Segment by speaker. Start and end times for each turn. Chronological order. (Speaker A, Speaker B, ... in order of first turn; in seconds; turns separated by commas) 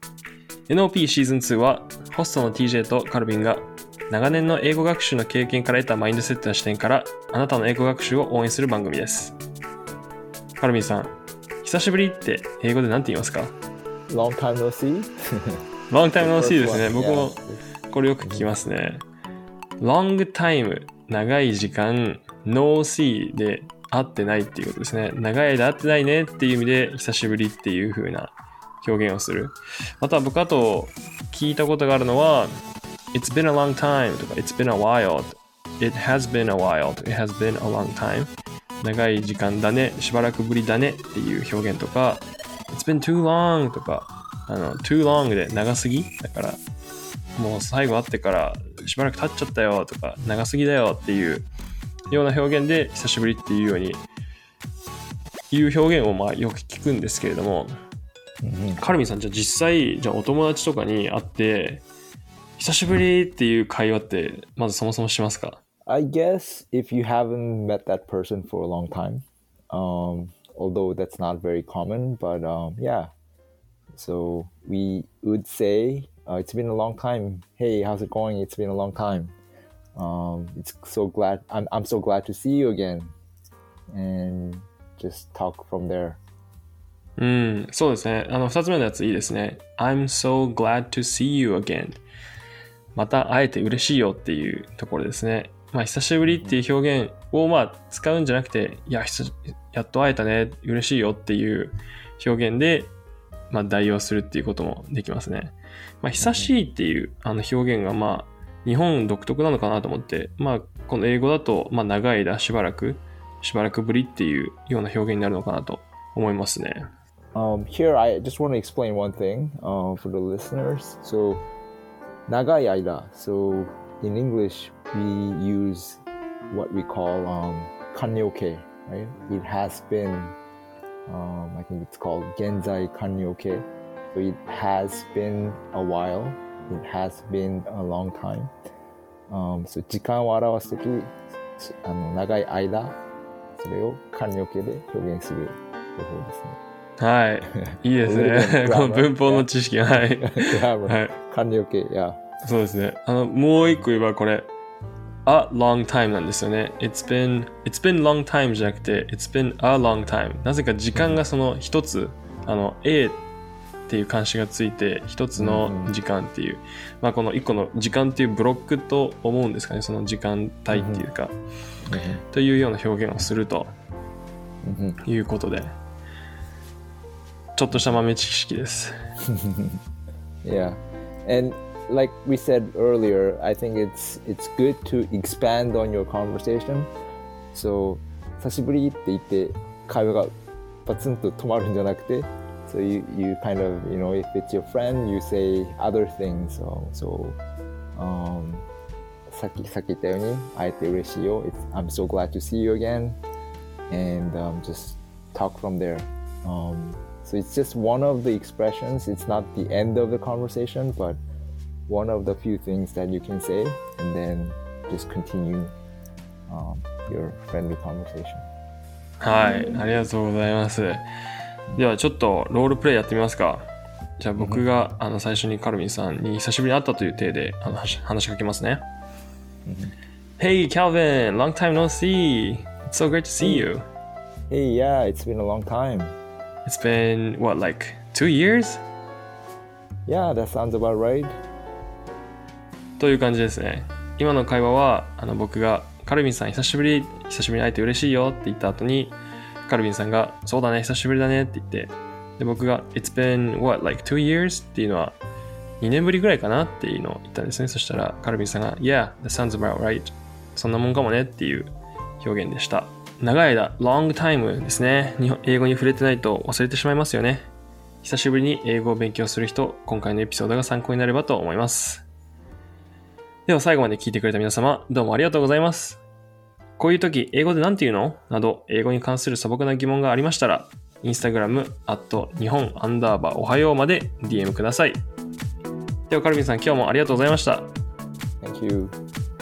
Speaker A: 0.7-9.3, Speaker A: 10.6-13.5, Speaker B: 14.1-15.6, Speaker A: 15.9-19.0, Speaker B: 16.1-17.7, Speaker B: 18.2-18.5, Speaker A: 19.8-32.5, Speaker A: 33.1-38.3, Speaker A: 38.8-46.6, Speaker A: 47.4-51.5, Speaker A: 52.1-54.0, Speaker A: 55.5-57.7, Speaker B: 58.4-58.8, Speaker A: 58.8-61.8, Speaker A: 62.6-65.6, Speaker B: 65.8-73.1, Speaker B: 73.9-79.3, Speaker B: 79.9-83.1, Speaker B: 83.9-86.2, Speaker A: 87.2-92.0, Speaker A: 92.9-102.9, Speaker B: 96.2-96.6, Speaker A: 103.5-116.9, Speaker B: 106.2-106.5, Speaker B: 117.3-121.4, Speaker B: 122.3-130.3, Speaker B: 131.1-138.5, Speaker B: 139.3-142.9, Speaker B: 143.6-146.6, Speaker A: 147.0-151.2, Speaker B: 147.5-152.2, Speaker A: 152.4-154.5, Speaker A: 155.2-163.2, Speaker B: 160.9-161.2, Speaker A: 163.9-171.3, Speaker B: 165.3-165.9, Speaker B: 170.7-171.0, Speaker B: 171.9-172.2, Speaker A: 172.3-173.7, Speaker B: 174.6-175.0, Speaker A: 175.0-175.7, Speaker A: 177.6-178.9, Speaker B: 177.7-178.0, Speaker B: 179.2-179.8, Speaker B: 180.4-186.9, Speaker B: 187.5-190.3, Speaker B: 190.8-197.4, Speaker B: 197.9-198.7, Speaker B: 199.3-203.2, Speaker B: 203.9-211.2, Speaker B: 211.9-215.7, Speaker B: 216.5-218.5, Speaker A: 219.2-221.0, Speaker A: 221.7-223.7, Speaker A: 224.2-228.8, Speaker B: 224.4-224.6, Speaker B: 229.6-229.9, Speaker A: 230.4-233.8, Speaker B: 233.4-233.7, Speaker B: 234.5-236.2, Speaker A: 236.6-238.8, Speaker B: 240.1-241.3, Speaker A: 243.0-255.2, Speaker A: 255.8-267.5, Speaker A: 268.0-272.0, Speaker A: 273.4-276.0, Speaker A: 276.8-285.0, Speaker A: 286.1-287.7, Speaker B: 288.4-288.9